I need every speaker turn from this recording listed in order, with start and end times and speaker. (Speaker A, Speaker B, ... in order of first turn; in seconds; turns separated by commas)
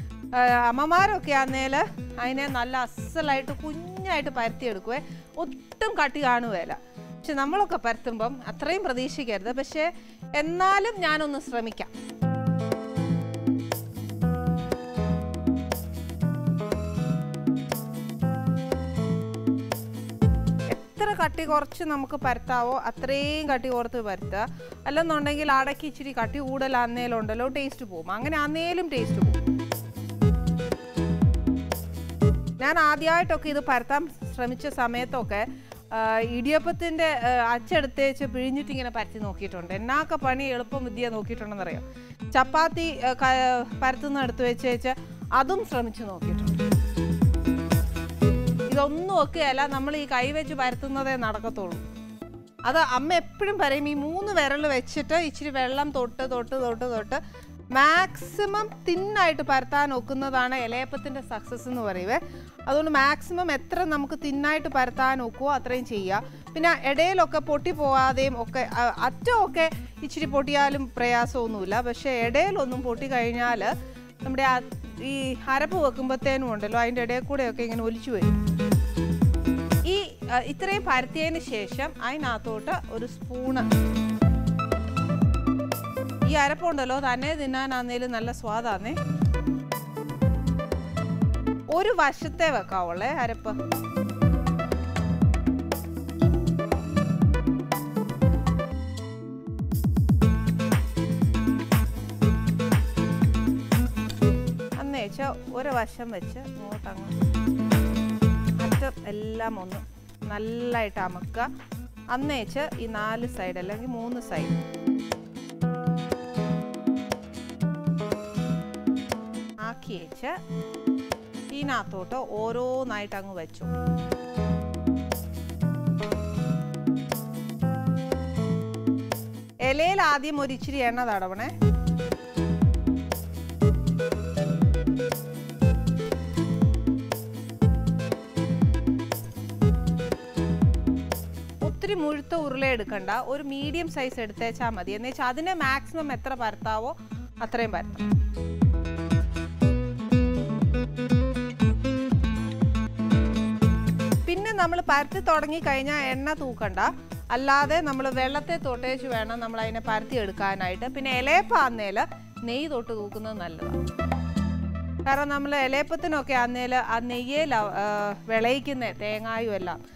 Speaker A: 0.3-11.9, Speaker A: 20.7-29.4, Speaker A: 32.6-46.6, Speaker A: 48.7-51.8, Speaker A: 52.6-57.2, Speaker A: 57.7-73.7, Speaker A: 74.2-78.3, Speaker A: 79.8-83.7, Speaker A: 86.2-89.0, Speaker A: 91.7-93.6, Speaker A: 104.8-107.2, Speaker A: 108.6-111.5, Speaker A: 112.1-114.6, Speaker A: 119.6-120.3, Speaker A: 121.5-123.7, Speaker A: 129.6-131.5, Speaker A: 141.6-148.1, Speaker A: 154.3-163.8, Speaker A: 165.1-169.8